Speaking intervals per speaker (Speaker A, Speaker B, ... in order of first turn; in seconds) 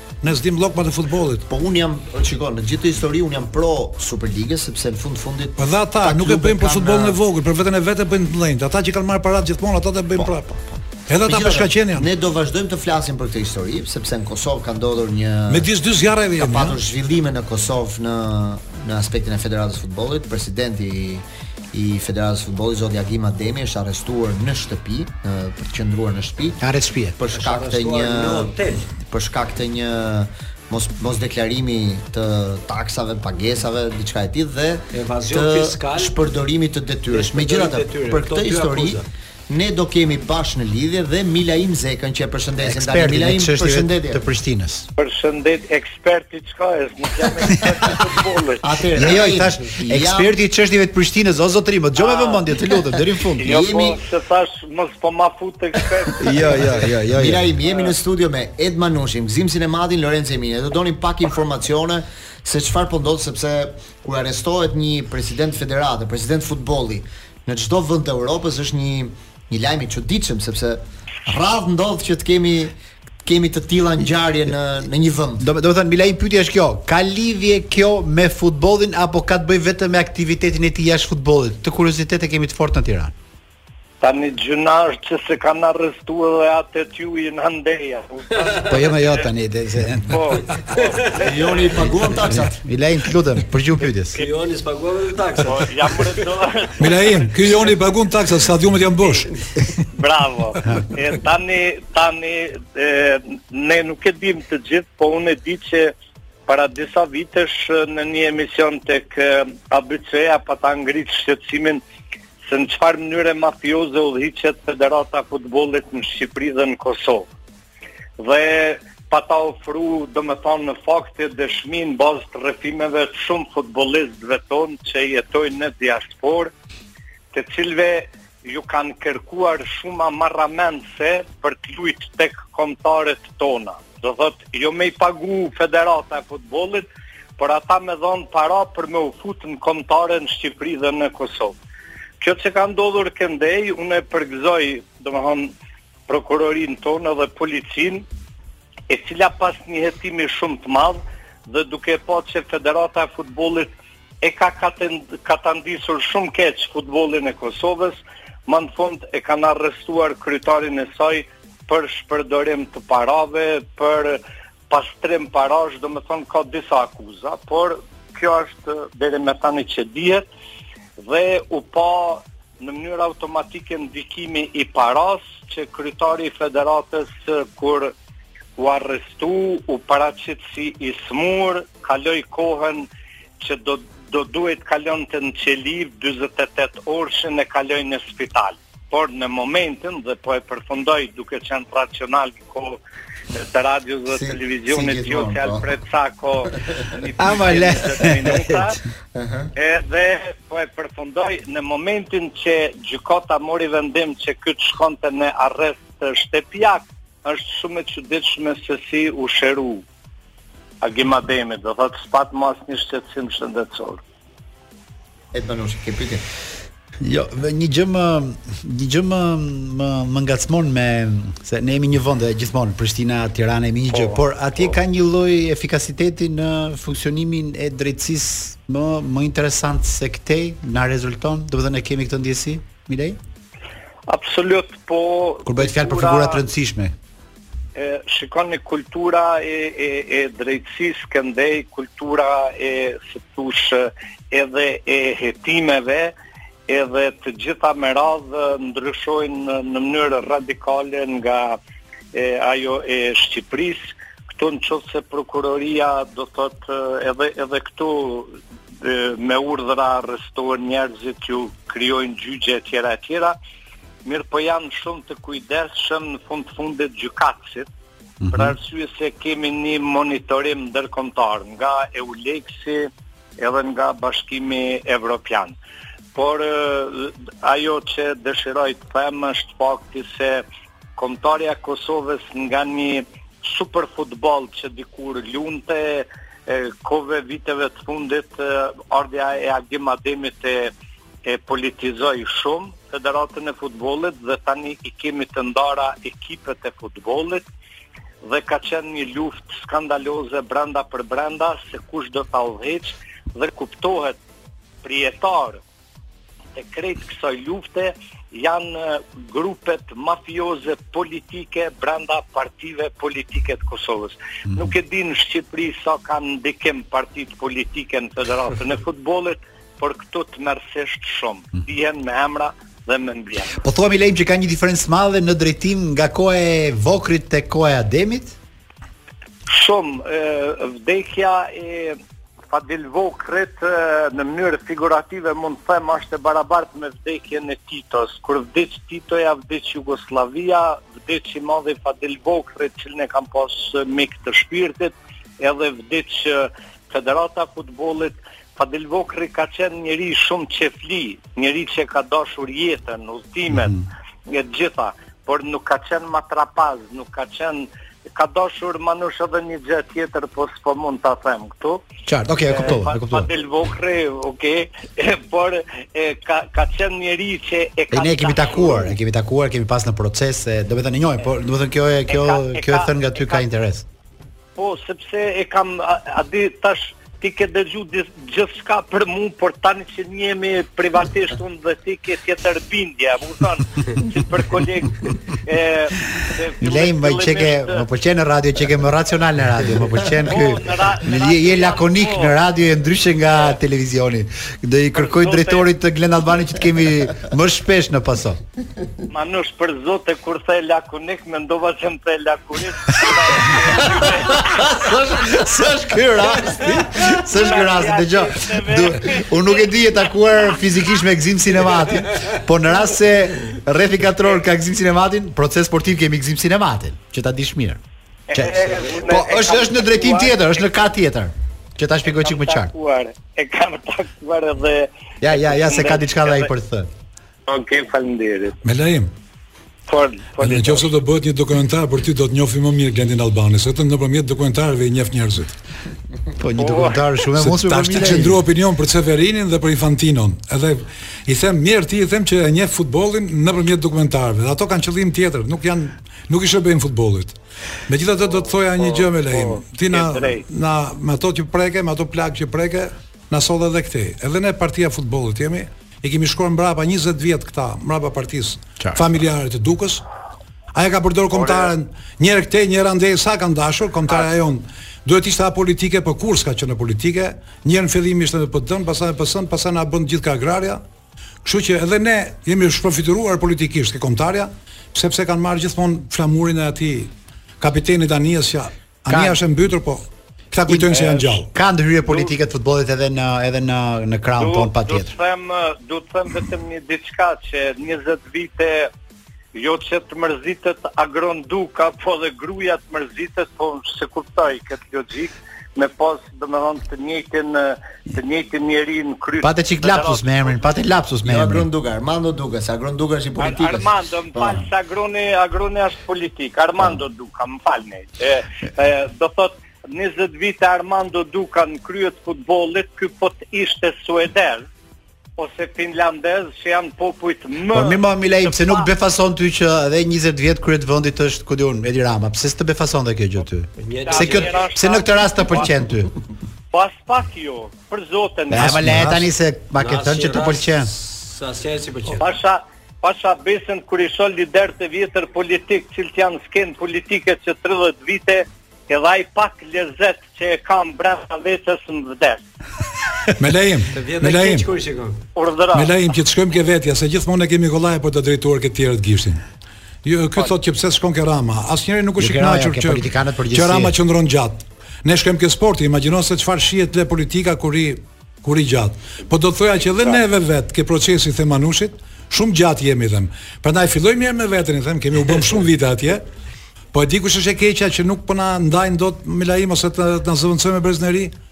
Speaker A: 0.2-1.5, 5.6-10.5, 11.1-12.1, 15.5-16.8, 96.8-99.3, 428.6-429.1, 430.4-435.5, 437.4-460.0, 460.8-470.8, 471.4-481.5, 528.6-529.2, 543.4-544.7, 545.8-549.4, 550.0-566.2, 566.9-571.3
Speaker B: 1.5-7.2, 10.2-15.7, 16.4-26.6, 27.2-44.2, 48.6-50.4, 53.4-54.0, 57.1-75.5, 91.2-92.6, 194.1-195.7, 199.2-199.5, 215.3-216.2, 501.3-504.6
Speaker C: 26.6-27.2, 42.6-44.9, 49.0-53.6, 56.2-57.5, 75.4-83.1, 88.7-90.5, 92.3-94.2, 197.2-198.7, 217.0-233.2, 235.5-236.9, 268.2-268.6, 323.6-328.4, 362.1-363.3, 367.9-373.9, 386.6-398.4, 404.3-417.8, 418.3-422.7, 425.2-426.9, 436.4-438.4, 479.1-479.4, 480.7-485.1, 499.4-501.7, 517.7-526.1, 528.5-530.9, 552.2-554.0
Speaker D: 27.3-28.8, 34.9-36.2, 37.1-39.1, 94.1-96.1, 523.8-524.5, 529.8-532.3, 543.9-545.2
Speaker E: 45.0-48.6, 52.0-52.5, 53.4-56.6, 57.7-57.9, 84.0-89.0, 90.1-91.9, 95.5-96.8, 99.9-105.9, 106.5-111.8, 112.5-117.3, 118.2-126.5, 127.3-136.9, 137.4-141.6, 142.2-145.5, 146.1-148.1, 148.9-153.7, 154.2-170.3, 171.0-177.9, 178.6-182.9, 183.4-192.8, 193.3-198.8, 199.6-209.8, 210.8-214.0, 234.1-236.4, 237.8-246.1, 246.7-251.6, 252.1-263.4, 264.1-267.7, 268.3-275.6, 276.1-280.4, 281.0-290.7, 291.3-297.5, 298.2-304.2, 304.8-305.6, 306.6-323.6, 329.5-332.0, 332.5-361.8, 362.4-368.9, 372.1-373.4, 374.6-387.8, 390.2-392.4, 394.9-395.7, 399.1-404.6, 407.2-409.7, 418.3-420.3, 422.1-426.5, 427.5-428.6, 429.9-430.9, 436.6-437.0, 448.2-450.4, 461.3-461.7, 482.1-482.3, 484.4-488.9, 489.6-500.3, 503.4-514.6, 515.4-518.9, 524.0-525.7, 526.7-528.9, 532.2-542.4, 545.4-545.9, 559.8-560.2